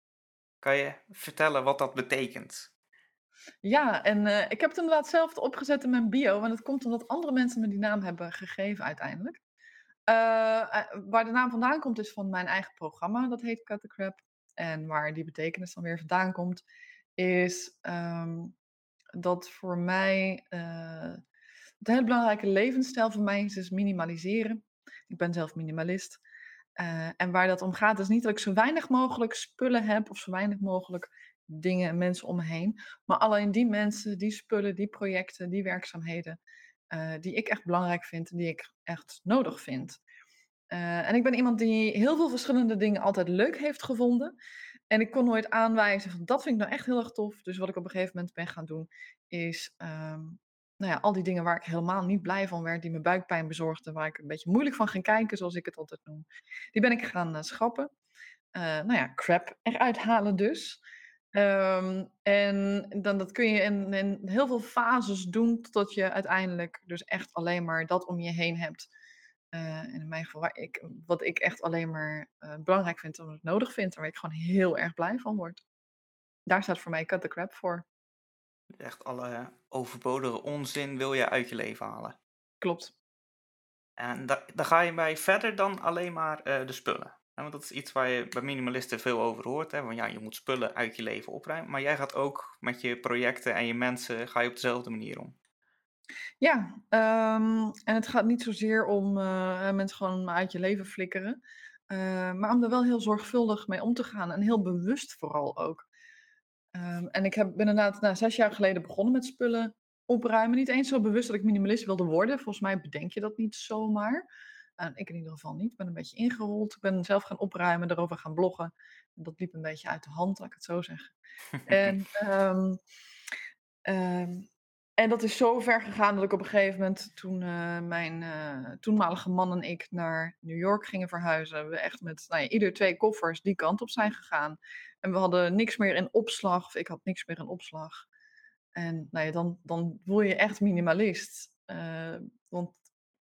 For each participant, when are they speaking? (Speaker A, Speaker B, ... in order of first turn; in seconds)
Speaker A: 0.6-2.7, 78.8-82.2, 84.0-95.4
Speaker B: 3.6-9.4, 10.1-16.6, 17.2-18.6, 19.2-21.2, 21.8-26.2, 26.8-36.4, 36.9-40.0, 40.7-44.4, 44.9-57.9, 58.5-60.8, 61.3-68.9, 69.5-75.6, 76.5-77.9, 82.6-82.9, 96.4-105.9, 106.7-114.2, 114.8-121.1, 121.7-122.8, 123.9-138.1, 138.8-142.8